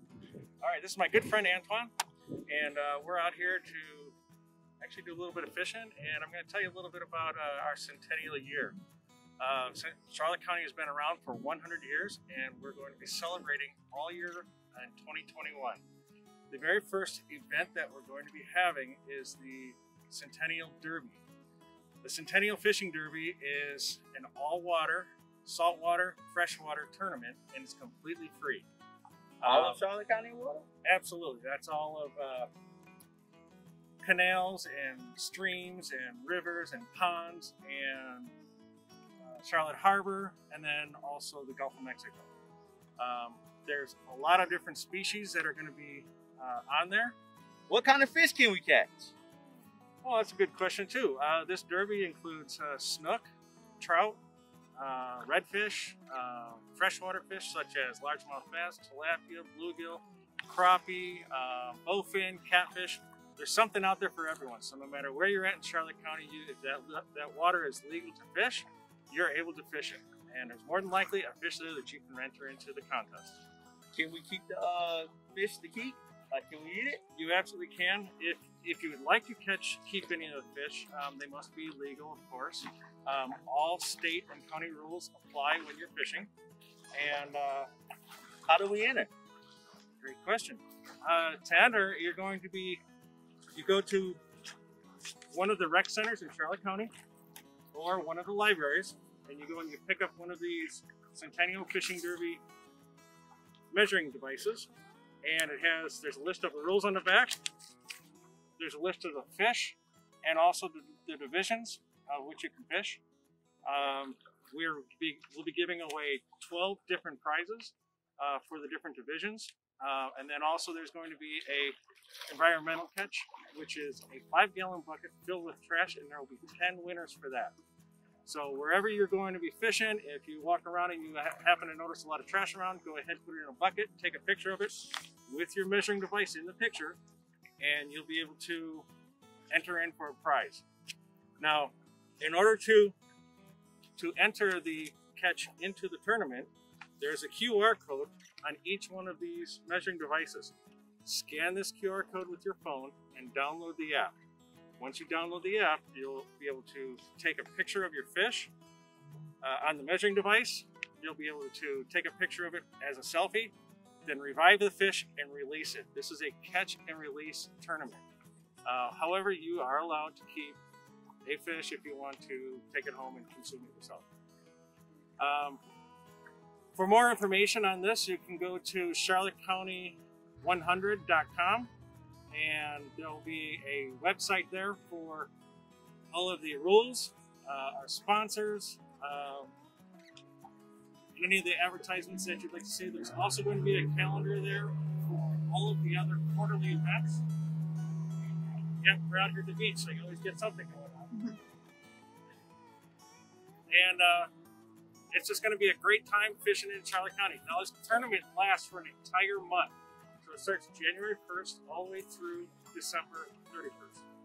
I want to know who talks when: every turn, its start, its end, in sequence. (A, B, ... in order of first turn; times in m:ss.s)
0:00.6-0:04.2 A
0:04.8-0:08.8 A
0:09.4-0:15.8 A
0:16.5-0:21.2 A
0:22.0-0:28.7 A
0:29.4-0:29.8 A
0:29.4-0:30.6 B
0:30.8-0:32.5 A
0:34.0-0:38.3 A
0:39.2-0:42.3 A
0:43.0-0:47.2 A
0:47.7-0:49.1 B
0:50.0-0:53.2 A
0:53.8-0:54.2 A
0:54.8-1:13.4 A
1:13.9-1:17.0 B
1:17.1-1:26.3 A
1:26.9-1:27.7 A
1:28.4-1:29.1 B
1:30.0-1:32.8 A
1:33.5-1:34.2 A
1:35.3-1:36.9 A
1:37.7-1:42.4 A
1:43.7-1:44.7 A
1:45.2-1:47.4 A
1:48.6-1:53.0 A
1:53.6-2:01.8 A
2:02.3-2:07.5 A
2:08.2-2:17.0 A
2:17.6-2:18.9 A
2:19.5-2:20.6 A
2:21.4-2:23.0 A
2:24.0-2:34.1 A
2:34.8-2:38.5 A
2:39.4-2:43.5 A
2:44.0-2:48.0 A
2:48.6-2:50.6 A
2:51.2-2:54.0 A
2:55.2-2:55.6 A
2:56.7-3:01.7 A
3:02.3-3:05.3 A
3:06.1-3:09.5 A
3:11.1-3:17.2 A
3:18.8-3:21.3 A
3:23.7-3:24.3 A
3:25.1-3:34.0 A